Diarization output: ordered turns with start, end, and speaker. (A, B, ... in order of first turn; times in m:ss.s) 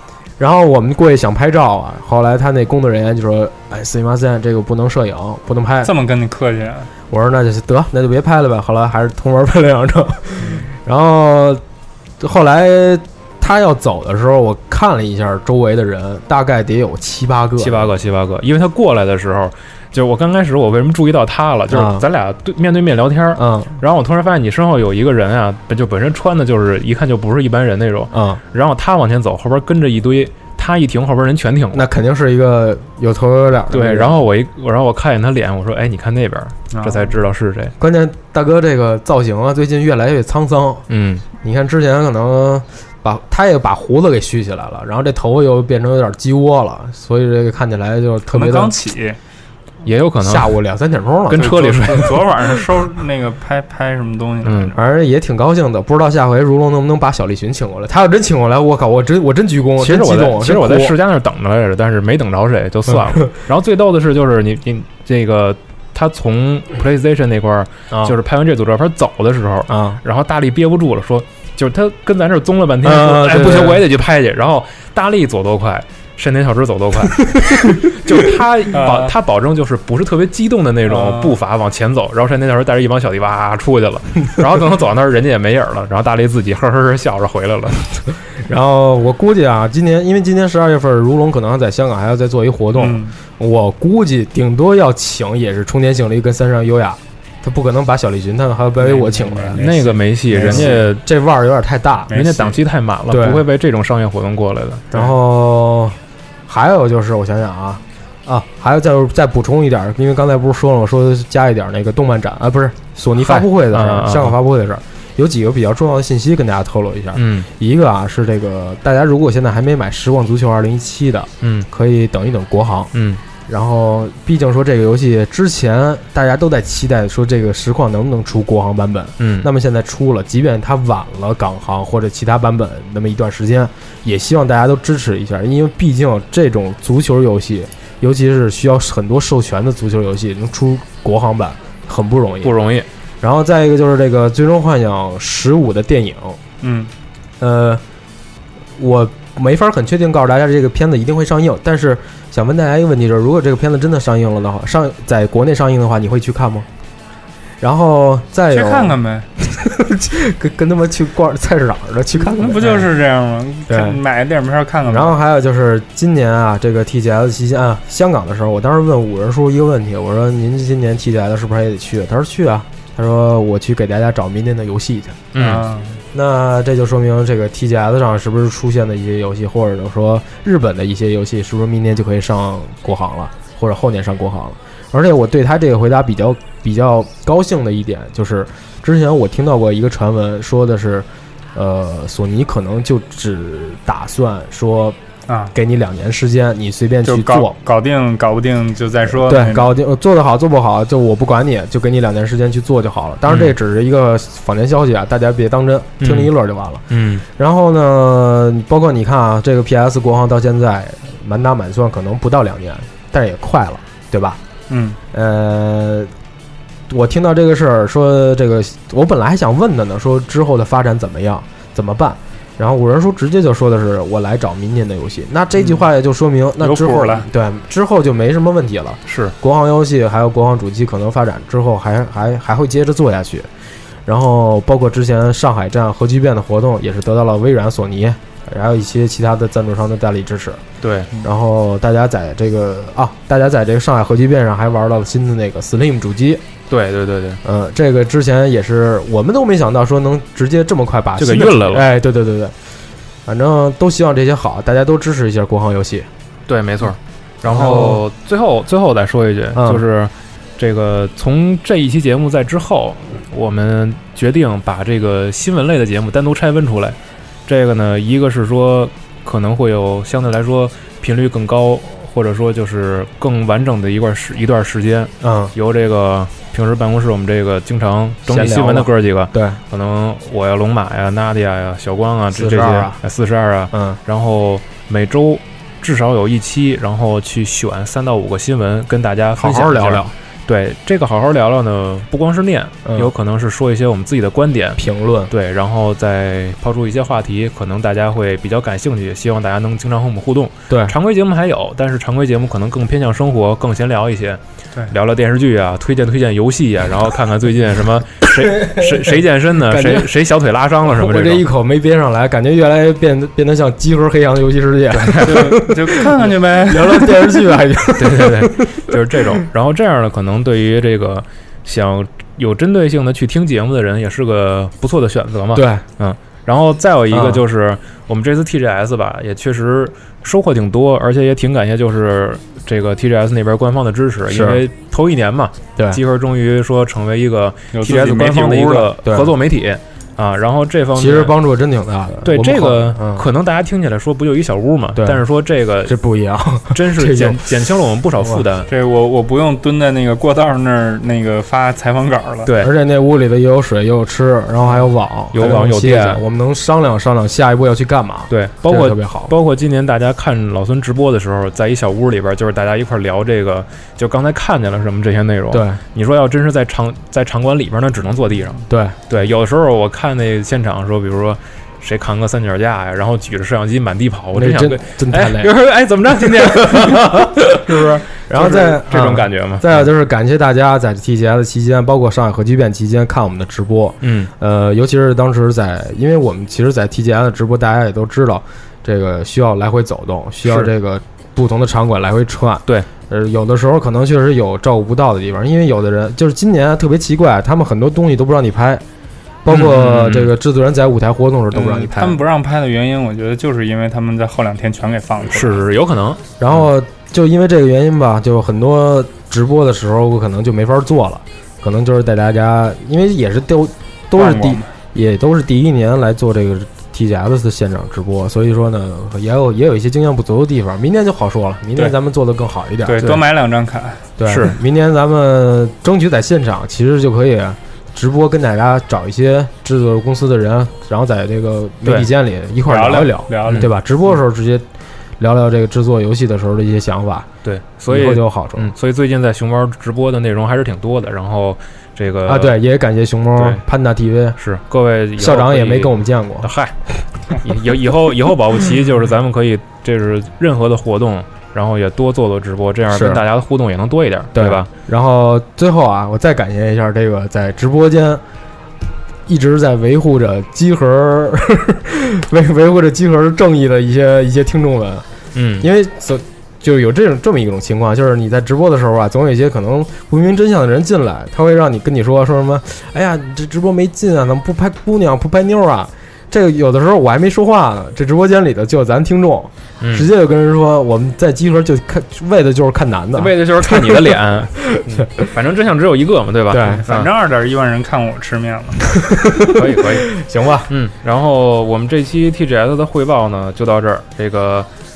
0:00.4-0:05.9 A
0:05.8-0:06.9 B
0:07.1-0:11.6 A
0:10.4-0:10.7 B
0:12.2-0:17.9 A
0:17.6-0:31.9 C
0:21.7-0:22.1 A
0:23.4-0:23.8 A
0:28.1-0:28.4 A
0:31.7-0:34.1 A
0:33.7-0:37.7 C
0:36.7-0:37.1 B
0:37.8-0:40.9 A
0:40.9-0:41.2 C
0:41.4-0:48.8 A
0:48.3-0:49.2 B
0:49.8-0:50.5 C
0:50.2-0:51.7 A
0:51.3-0:52.2 C
0:51.3-0:54.8 B
0:54.4-0:54.7 C
0:54.8-1:01.0 A
0:59.8-1:28.0 C
1:02.9-1:03.2 A
1:07.9-1:08.2 A
1:09.7-1:10.0 A
1:12.8-1:13.8 A
1:17.4-1:18.2 A
1:18.7-1:19.2 B
1:20.9-1:21.4 B
1:28.3-1:39.6 A
1:32.8-1:33.2 B
1:38.8-1:40.8 B
1:39.6-1:41.0 C
1:40.3-1:42.1 A
1:42.1-1:42.6 B
1:42.1-1:44.9 C
1:43.1-1:43.5 A
1:44.9-2:02.9 A
1:53.2-1:54.4 C
1:57.2-1:57.5 C
2:01.4-2:01.7 C
2:02.9-2:03.2 C
2:03.5-2:22.6 A
2:09.2-2:09.5 C
2:22.4-2:22.9 C
2:23.2-2:26.4 A
2:26.6-2:26.9 B
2:27.4-2:27.8 A
2:28.8-2:36.7 A
2:37.6-2:42.9 A
2:38.5-2:39.3 B
2:42.2-2:45.2 B
2:43.7-2:44.0 A
2:44.9-2:55.2 A
2:55.3-2:55.6 C
2:55.4-2:56.0 B
2:56.1-3:15.0 A
3:15.3-3:15.5 B
3:15.5-3:17.6 A
3:17.0-3:19.7 B
3:19.1-3:34.4 A
3:23.3-3:23.5 C
3:26.0-3:26.3 C
3:26.9-3:27.2 C
3:34.7-3:35.0 B
3:35.1-3:36.1 A
3:36.9-3:53.5 A
3:46.6-3:47.3 B
3:49.1-3:49.3 C
3:54.1-4:00.6 A
4:00.8-4:01.1 C
4:01.2-4:06.4 A
4:06.7-4:07.4 C
4:07.4-4:12.6 A
4:11.2-4:11.9 C
4:13.3-4:16.1 A
4:16.5-5:11.5 C
4:17.4-4:18.0 A
4:19.5-4:19.8 A
4:35.2-4:35.5 A
4:38.3-4:39.6 A
4:42.3-4:43.0 A
4:43.7-4:44.0 A
4:49.4-4:50.1 A
4:52.9-4:53.1 A
4:54.8-4:55.3 A
5:00.7-5:01.0 A
5:08.4-5:10.1 A
5:10.9-5:19.3 A
5:14.9-5:15.6 C
5:15.2-5:17.4 B
5:18.0-5:41.4 C
5:25.5-5:25.8 A
5:27.1-5:27.4 A
5:34.3-5:34.6 A
5:37.7-5:38.9 B
5:39.0-5:39.3 A
5:41.0-5:43.3 A
5:42.2-5:46.0 C
5:45.0-5:45.2 A
5:45.8-5:48.4 A
5:46.7-5:48.7 C
5:48.7-5:52.5 B
5:52.5-5:52.7 C
5:52.6-5:59.3 A
5:55.3-5:56.2 C
5:58.3-6:19.9 C
6:05.5-6:05.8 A
6:08.7-6:09.0 A
6:14.3-6:15.5 A
6:16.2-6:38.8 A
6:24.0-6:24.3 C
6:30.4-6:30.7 C
6:39.4-6:42.2 A
6:39.5-6:40.3 C
6:41.5-6:45.6 B
6:45.3-6:46.2 C
6:46.4-7:03.0 A
6:54.2-6:54.7 B
7:02.8-7:04.0 B
7:04.2-7:14.7 A
7:04.2-7:04.6 C
7:11.8-7:12.1 C
7:12.7-7:13.7 B
7:15.2-7:17.3 A
7:17.4-7:22.6 C
7:17.9-7:18.7 A
7:22.2-7:24.4 A
7:23.4-7:23.6 C
7:24.4-7:26.8 C
7:25.2-7:26.5 A
7:27.3-7:34.7 C
7:32.9-7:33.2 A
7:34.3-7:38.2 A
7:39.3-7:45.0 A
7:45.4-7:45.7 C
7:45.6-8:05.3 A
7:59.8-8:00.1 C
8:03.2-8:07.1 C
8:06.5-8:06.8 A
8:06.8-8:08.9 B
8:09.0-8:10.7 A
8:09.5-8:10.1 C
8:10.7-8:14.7 C